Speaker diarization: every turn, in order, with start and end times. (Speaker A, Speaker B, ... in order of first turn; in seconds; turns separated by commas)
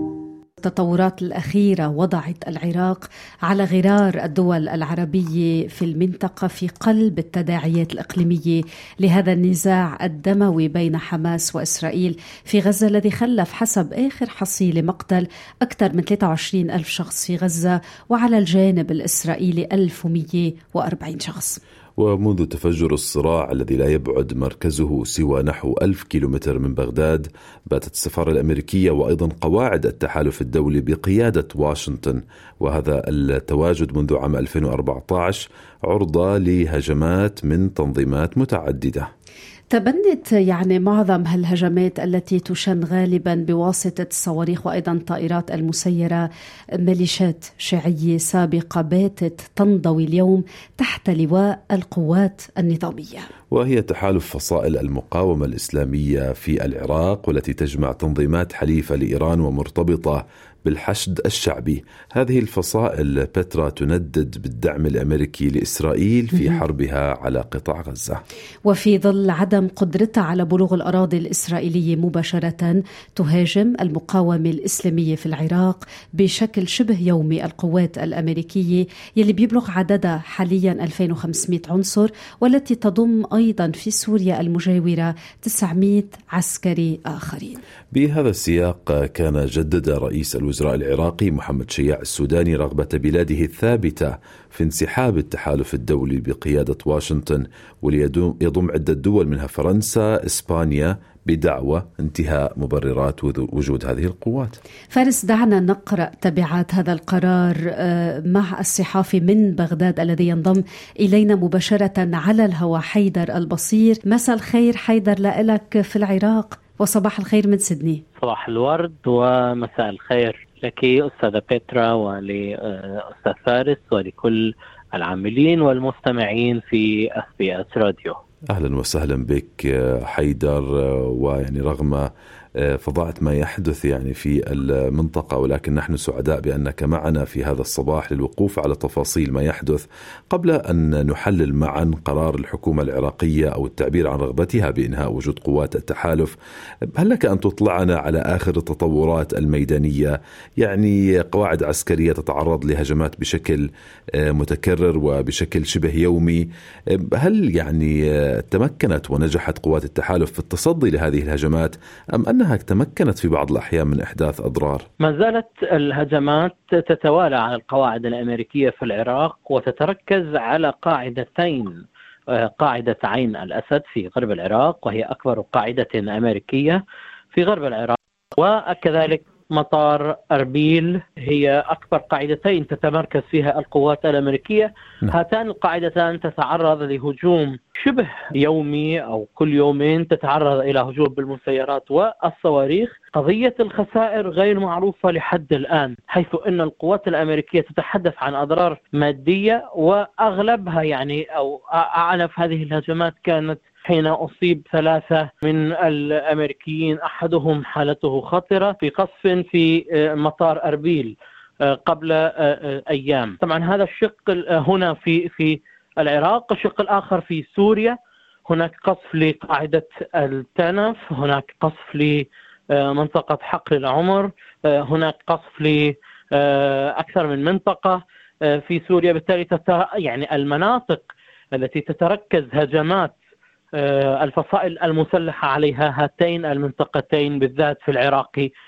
Speaker A: 0.6-21.6, Speaker B: 22.0-39.1, Speaker A: 39.7-46.2, Speaker A: 46.8-53.3, Speaker B: 53.5-68.2, Speaker A: 68.7-87.6, Speaker B: 87.9-104.6, Speaker A: 104.9-118.0, Speaker C: 118.2-128.2, Speaker B: 128.5-132.1, Speaker B: 132.6-146.3, Speaker B: 147.0-153.6, Speaker B: 154.2-156.4, Speaker B: 156.9-164.8, Speaker C: 165.0-176.8, Speaker C: 177.3-233.1, Speaker C: 233.8-238.5